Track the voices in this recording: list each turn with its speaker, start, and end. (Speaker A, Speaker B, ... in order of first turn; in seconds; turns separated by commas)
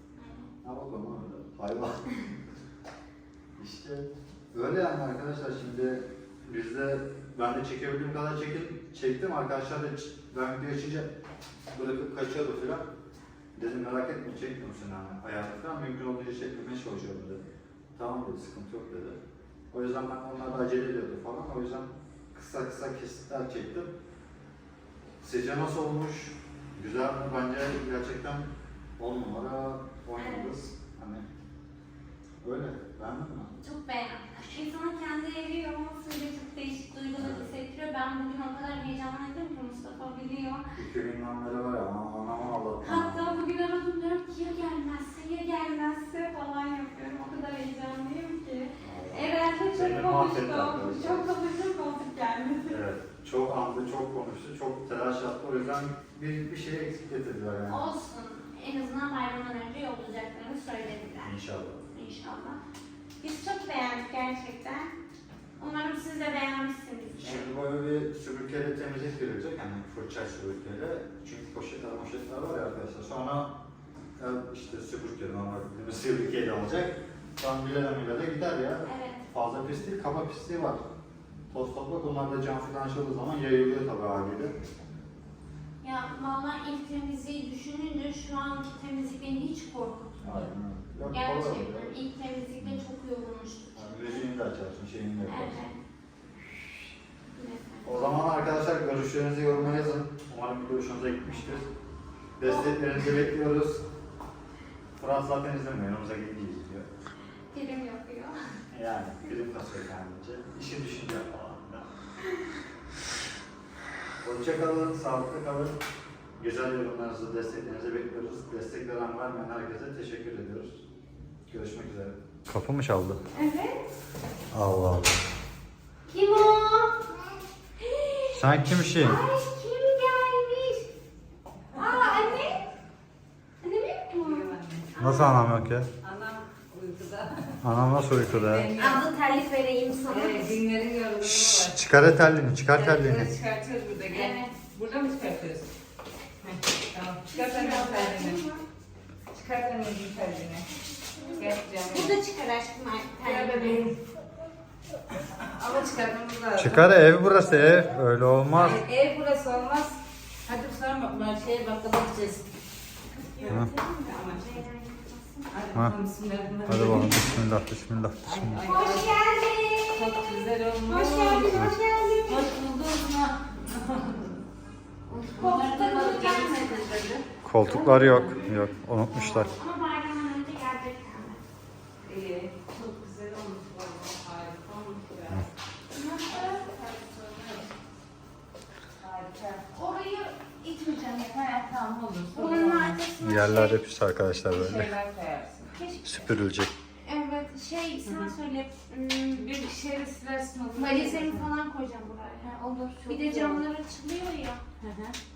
Speaker A: 0.1-0.5, Speaker B: 0.6-2.2, Speaker B: 3.6-11.1, Speaker B: 11.7-12.9, Speaker B: 13.6-19.2, Speaker B: 19.7-23.9, Speaker B: 25.2-31.2, Speaker A: 30.2-30.7, Speaker B: 32.4-33.5, Speaker A: 33.6-40.7, Speaker B: 37.2-37.5, Speaker B: 40.7-43.4, Speaker A: 42.8-52.8, Speaker B: 48.8-51.3, Speaker B: 52.7-57.9, Speaker A: 57.7-61.4, Speaker B: 61.2-61.8, Speaker A: 61.9-62.6, Speaker A: 63.2-65.0, Speaker A: 65.6-67.5, Speaker B: 67.2-73.6, Speaker B: 74.2-80.8, Speaker A: 78.8-79.2, Speaker B: 81.5-84.5, Speaker A: 85.8-90.4, Speaker B: 90.2-91.9, Speaker A: 91.1-94.3, Speaker B: 93.7-95.6, Speaker A: 95.2-95.8, Speaker A: 97.3-98.3, Speaker B: 97.8-101.7, Speaker B: 102.4-103.8, Speaker A: 102.4-103.1, Speaker B: 105.0-106.9, Speaker A: 107.5-108.4, Speaker B: 108.7-111.9, Speaker B: 114.2-115.8, Speaker B: 116.4-120.8, Speaker B: 121.5-123.2, Speaker A: 123.3-123.8, Speaker B: 124.5-125.2, Speaker A: 126.1-130.9, Speaker B: 128.3-129.2, Speaker A: 131.7-132.6, Speaker A: 133.6-135.4, Speaker C: 134.2-134.9, Speaker B: 135.0-135.9, Speaker C: 136.0-137.6, Speaker B: 137.6-138.7, Speaker C: 138.2-139.1, Speaker A: 138.7-140.6, Speaker C: 140.1-141.8, Speaker B: 141.2-143.3, Speaker C: 142.7-145.7, Speaker A: 144.1-144.6, Speaker C: 146.4-148.4, Speaker A: 147.3-148.6, Speaker C: 149.3-152.2, Speaker A: 151.0-153.9, Speaker C: 153.2-154.0, Speaker C: 155.1-156.9, Speaker B: 156.6-158.8, Speaker C: 158.5-162.5, Speaker A: 163.1-165.7, Speaker C: 163.4-164.4, Speaker C: 165.5-167.5, Speaker B: 166.7-168.6, Speaker C: 168.2-169.1, Speaker A: 168.6-170.3, Speaker C: 169.9-171.6, Speaker A: 170.9-172.5, Speaker C: 172.2-174.4, Speaker C: 175.1-178.5, Speaker A: 175.3-176.9, Speaker B: 177.4-179.5, Speaker A: 179.1-181.4, Speaker C: 182.0-185.5, Speaker A: 185.9-186.7, Speaker C: 186.2-187.7, Speaker C: 189.0-189.7, Speaker A: 189.7-191.4, Speaker C: 191.3-193.0, Speaker A: 192.3-193.8, Speaker B: 193.2-194.9, Speaker C: 194.5-195.8, Speaker A: 195.8-196.1, Speaker B: 196.0-196.7, Speaker A: 197.0-199.5, Speaker C: 198.0-198.3, Speaker C: 199.3-201.4, Speaker A: 200.7-204.6, Speaker C: 202.4-203.6, Speaker C: 204.8-205.2